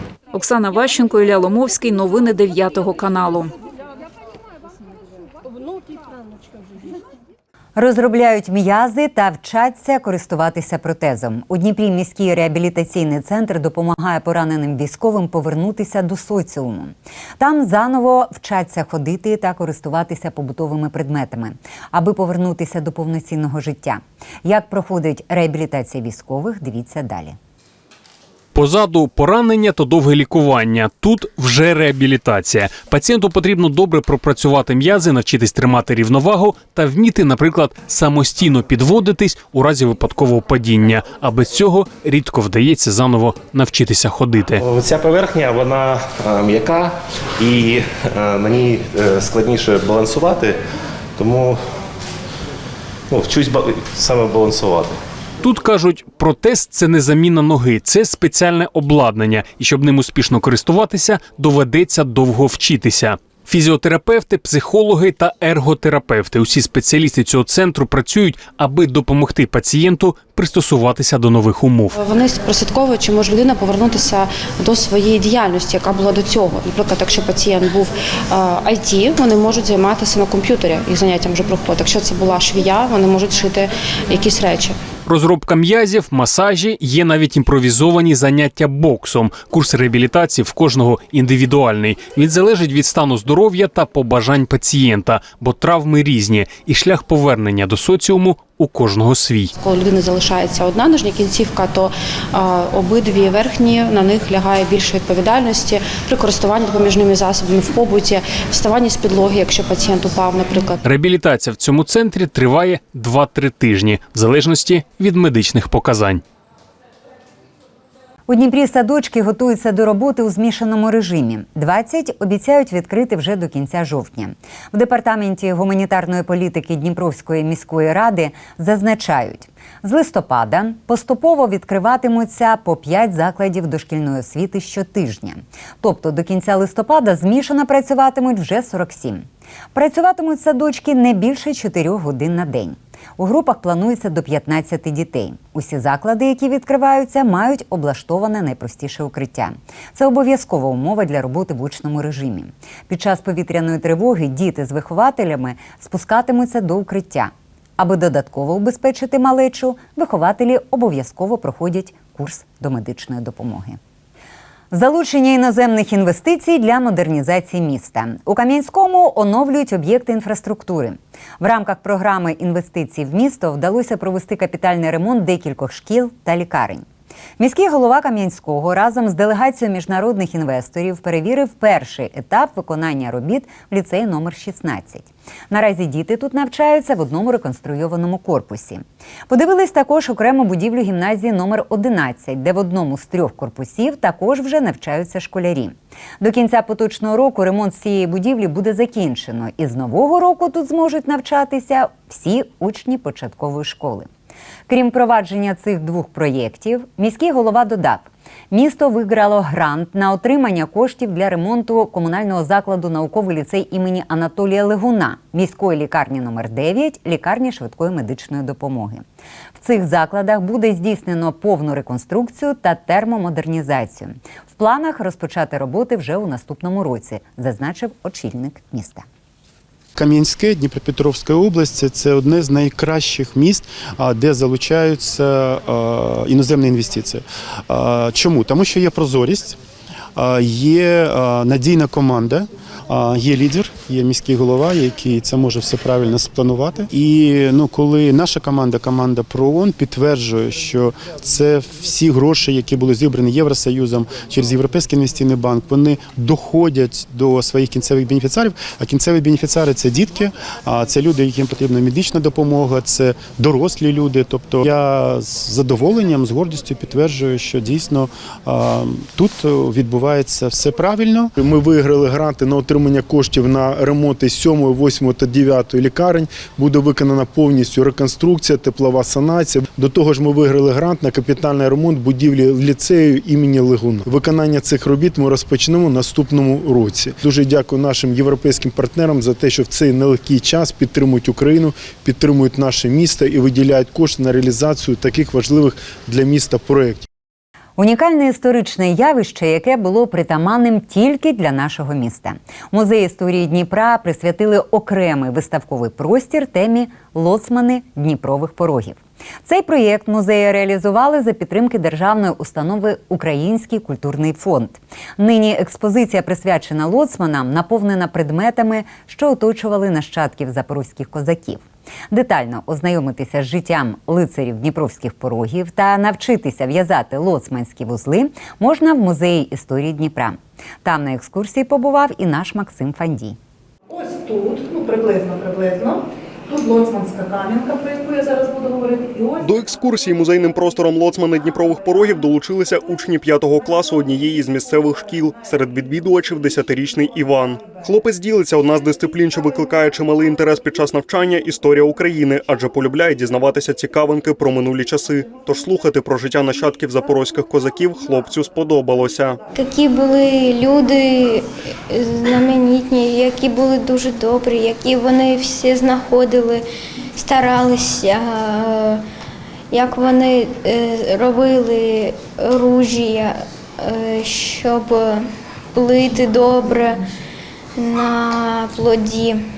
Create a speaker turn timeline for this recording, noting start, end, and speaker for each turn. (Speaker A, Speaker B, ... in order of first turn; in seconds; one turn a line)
Speaker A: 0.3-3.5
Speaker B: 7.8-27.4
Speaker C: 28.5-44.6
Speaker D: 44.6-50.6
Speaker D: 51.2-51.6
Speaker D: 53.1-55.0
Speaker C: 55.4-71.9
Speaker E: 71.9-84.8
Speaker C: 85.0-99.5
Speaker E: 99.6-110.8
Speaker C: 110.8-116.2
Speaker B: 118.3-163.8
Speaker B: 164.7-176.8
Speaker B: 177.4-204.1
Speaker B: 204.7-219.0
Speaker B: 219.6-229.0
Speaker F: 229.9-239.6
Speaker F: 240.2-297.1
Speaker B: 297.8-333.4
Speaker G: 333.9-339.5
Speaker H: 339.4-359.4
Speaker I: 359.6-369.0
Speaker I: 369.7-377.0
Speaker I: 377.8-379.4